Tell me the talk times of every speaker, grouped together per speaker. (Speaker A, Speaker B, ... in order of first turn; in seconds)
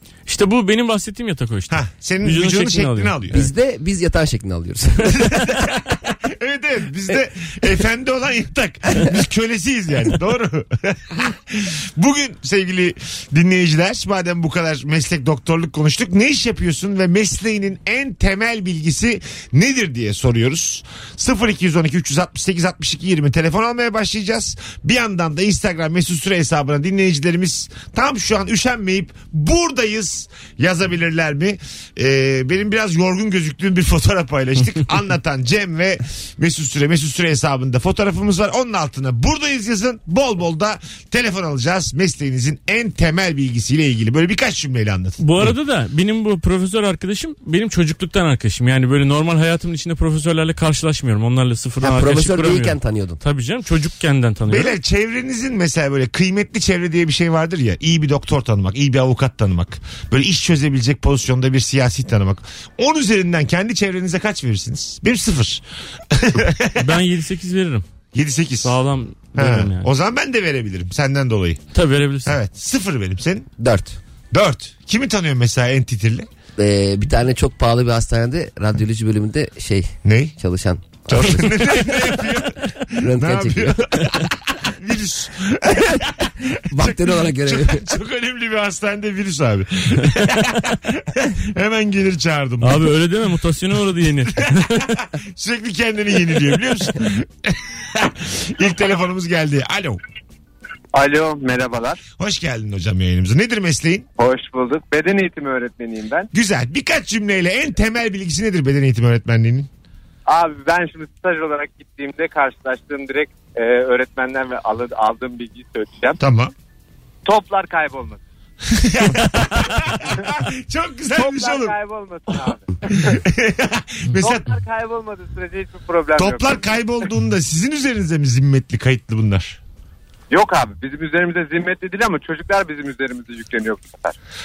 Speaker A: 0.2-3.3, 45.2-54.7, 66.8-67.8, 68.6-69.9, 71.7-72.3, 92.6-95.0
Speaker B: 1.7-3.5, 5.1-45.5, 54.5-66.8, 68.1-68.8, 69.3-71.6, 72.2-73.5, 74.3-76.3, 80.0-80.4, 81.1-92.9, 95.2-100.0, 102.2-104.1, 106.3-109.7, 116.2-116.5, 118.7-121.7, 122.9-124.5, 126.2-129.6
Speaker C: 3.3-5.5, 51.8-53.2, 73.6-74.0, 76.6-82.1, 83.0-83.8, 86.7-87.8
Speaker D: 100.9-102.0, 104.2-106.3, 110.3-116.2, 117.2-118.2, 120.0-120.3, 121.2-123.2, 124.2-126.7, 130.3-134.1